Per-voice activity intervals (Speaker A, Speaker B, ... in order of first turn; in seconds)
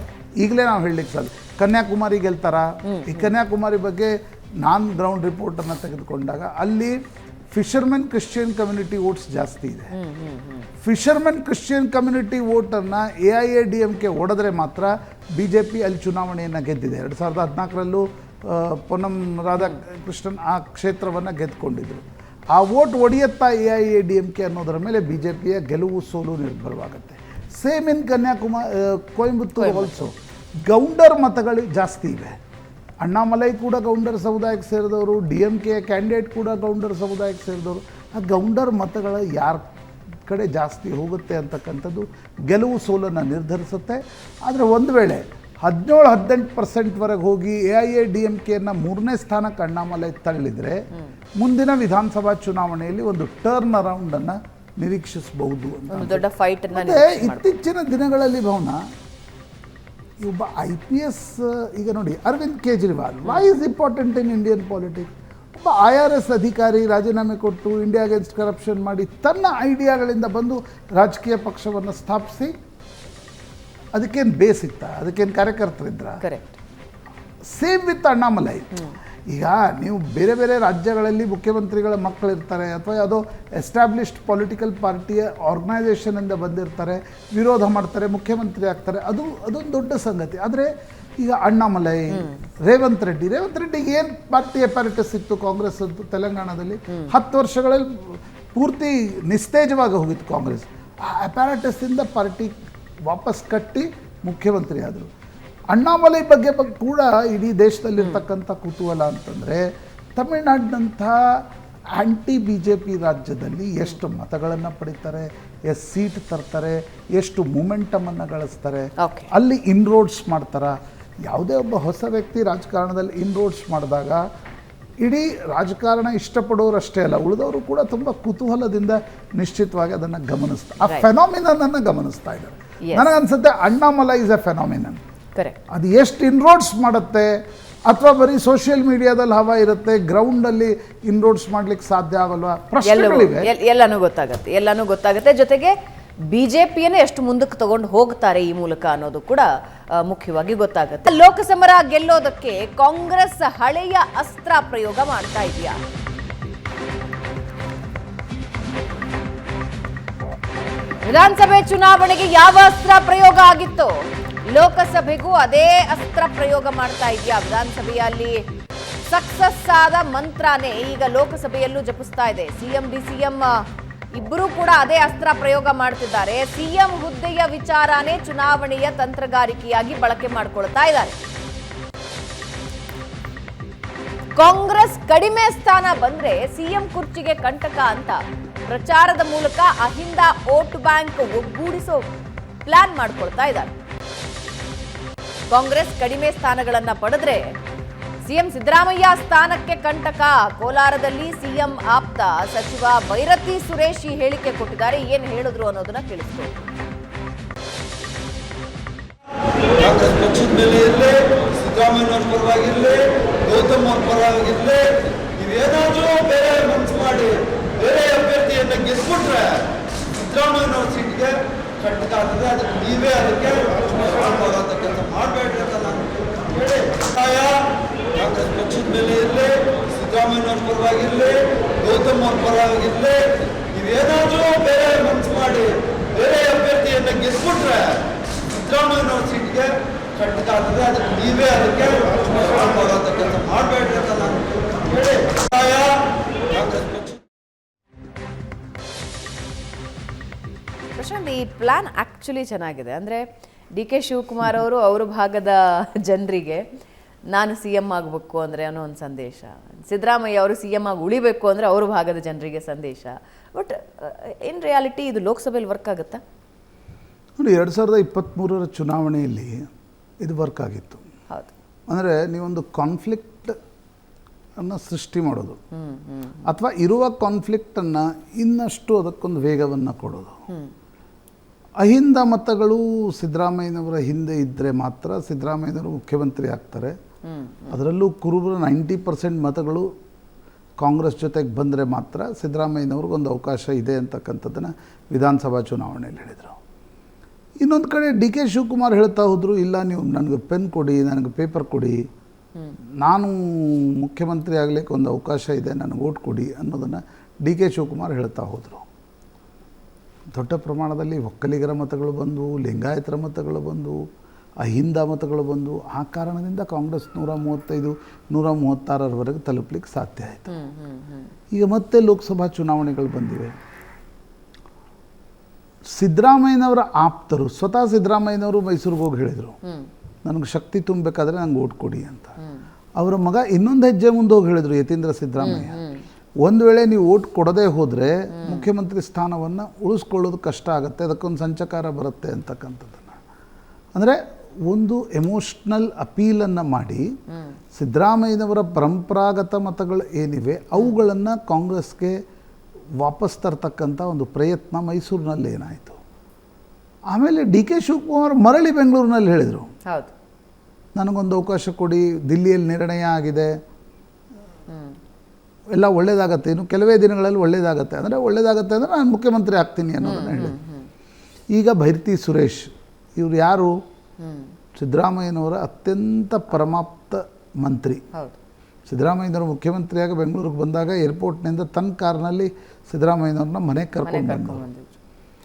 Speaker A: 0.4-9.9, 10.8-32.4, 33.0-39.7, 40.2-50.9, 51.4-58.8, 60.2-72.5, 73.9-76.2, 77.5-78.7, 79.3-102.5, 103.0-105.1, 105.7-124.2, 125.0-135.0, 135.7-143.5, 267.4-269.7, 270.2-271.0, 271.9-273.6, 274.6-275.6, 276.4-280.4, 281.8-286.9, 287.7-289.9, 290.8-296.6, 297.6-302.1, 303.0-308.9, 310.3-314.0, 314.6-320.5, 321.5-323.6, 325.9-329.6, 330.2-332.4, 333.0-335.8, 336.4-343.2, 343.9-347.1, 347.7-352.2, 353.0-356.0, 357.1-359.7, 360.9-363.5, 365.7-370.6, 371.5-373.8, 374.7-378.0, 378.9-384.6
Speaker B: 2.8-3.3, 9.9-10.7, 29.6-30.0, 55.9-57.5, 76.2-76.5, 92.1-92.4, 119.0-119.3, 132.8-133.1, 142.8-145.7, 146.3-155.8, 161.0-168.4, 169.1-181.2, 184.3-192.1, 192.7-193.7, 195.5-197.5, 198.2-206.6, 250.9-256.6, 257.3-266.2, 275.7-276.4, 287.2-287.8, 320.5-321.3, 335.4-336.0, 338.3-338.7, 347.3-347.6, 359.9-360.1, 364.7-364.9, 370.0-370.9, 374.2-374.5, 384.0-384.9
Speaker C: 209.7-247.2